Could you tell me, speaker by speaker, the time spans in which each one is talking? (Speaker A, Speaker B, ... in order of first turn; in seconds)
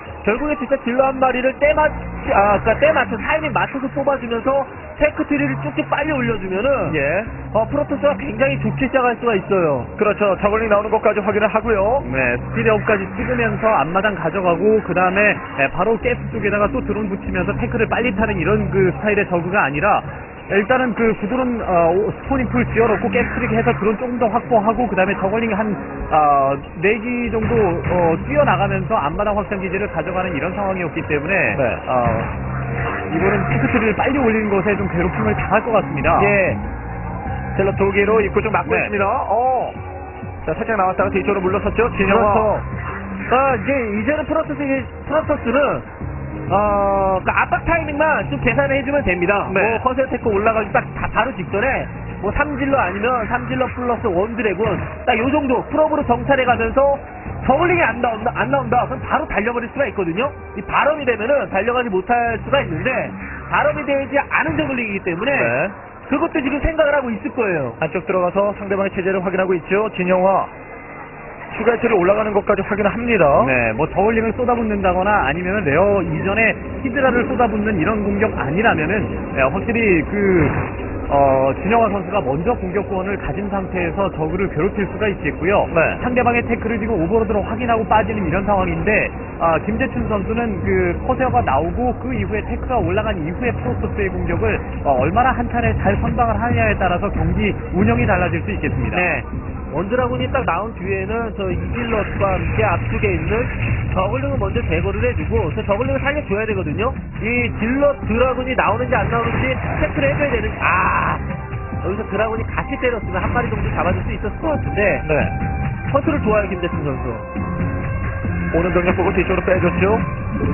Speaker A: 0.2-7.0, 7.5-9.9, 36.2-36.6, 42.0-42.7, 43.3-45.9, 46.5-67.8, 98.9-111.2, 111.8-115.0, 115.9-117.3
Speaker B: 6.9-7.3, 10.0-12.1, 31.5-31.8, 37.5-39.8, 40.4-42.5, 49.5-49.8, 65.2-65.7, 67.8-70.5, 71.5-73.5, 85.7-86.0, 115.0-115.3, 118.5-120.1
Speaker C: 12.0-32.3, 33.1-36.4, 38.6-38.9, 73.3-99.1